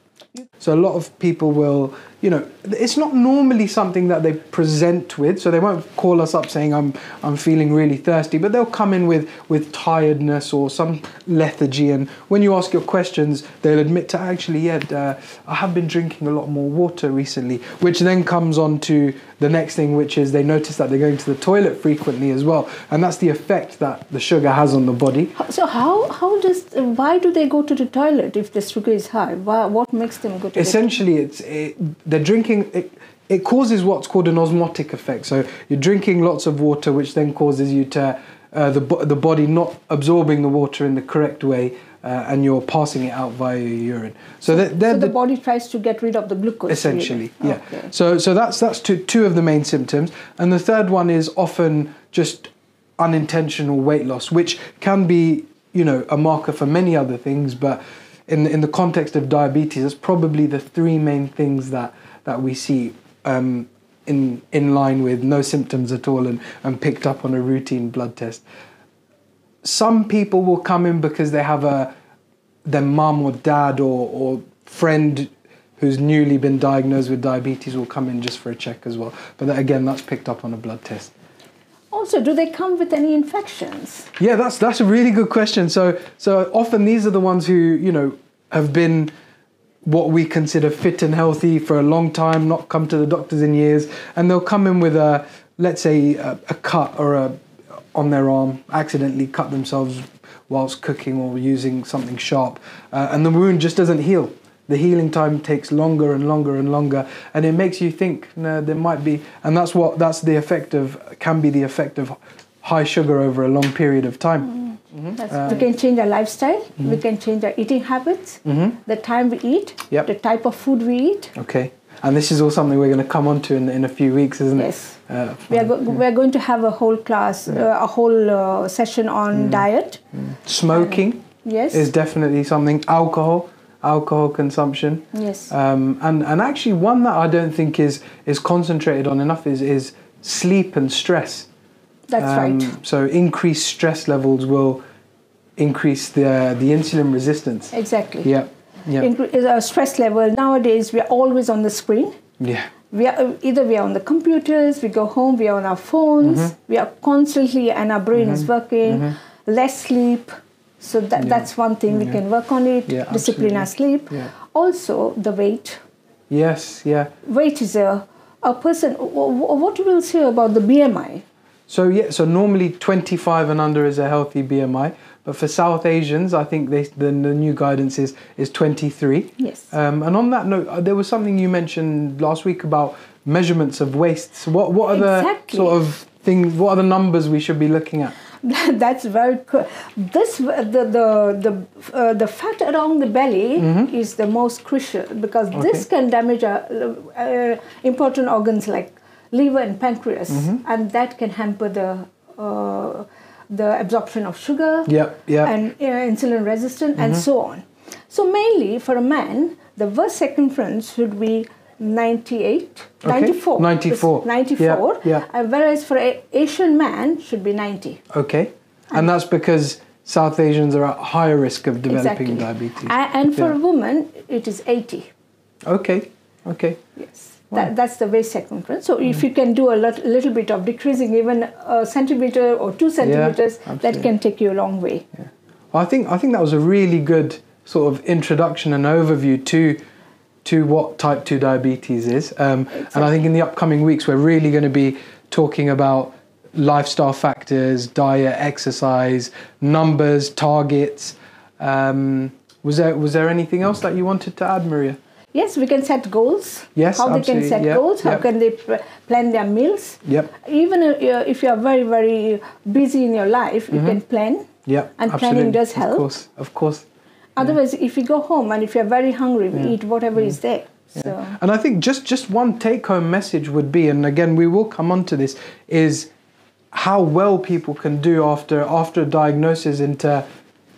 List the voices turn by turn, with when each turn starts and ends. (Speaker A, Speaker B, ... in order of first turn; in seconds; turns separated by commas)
Speaker A: 0.6-25.4, Speaker B: 25.4-30.9, Speaker A: 30.5-45.1, Speaker B: 44.5-47.9, Speaker A: 46.7-68.4, Speaker A: 69.6-71.9, Speaker A: 72.7-81.1, Speaker B: 81.9-84.1, Speaker A: 84.2-89.1, Speaker A: 89.8-97.3, Speaker A: 97.9-115.7, Speaker B: 115.2-121.3, Speaker A: 118.4-118.8, Speaker A: 121.3-125.9, Speaker B: 124.5-125.0, Speaker B: 125.5-130.1, Speaker A: 129.3-129.6, Speaker A: 130.3-141.5, Speaker B: 130.7-131.9, Speaker B: 135.1-135.5, Speaker B: 142.1-142.8, Speaker A: 142.2-144.8, Speaker A: 145.6-149.1, Speaker B: 147.7-148.3, Speaker B: 149.0-152.1, Speaker A: 152.4-152.7, Speaker B: 152.9-165.8, Speaker A: 156.2-156.5, Speaker A: 158.1-159.2, Speaker A: 161.2-162.2, Speaker A: 162.9-164.3, Speaker A: 166.3-167.1, Speaker B: 167.2-171.2, Speaker A: 171.7-188.1, Speaker B: 179.4-179.7, Speaker B: 184.9-185.8, Speaker B: 188.4-218.0, Speaker A: 193.6-193.9, Speaker A: 195.5-195.8, Speaker A: 200.3-200.6, Speaker A: 204.8-205.5, Speaker A: 213.0-215.2, Speaker A: 218.1-223.5, Speaker B: 221.9-225.1, Speaker A: 225.7-226.8, Speaker B: 227.0-235.1, Speaker A: 233.0-234.1, Speaker A: 235.7-239.8, Speaker A: 240.4-255.0, Speaker B: 242.8-243.1, Speaker B: 255.3-266.1, Speaker A: 256.8-258.2, Speaker A: 260.1-260.3, Speaker A: 263.7-264.0, Speaker A: 264.6-266.8, Speaker B: 267.4-271.3, Speaker A: 269.5-270.4, Speaker A: 270.9-276.1, Speaker A: 276.7-280.2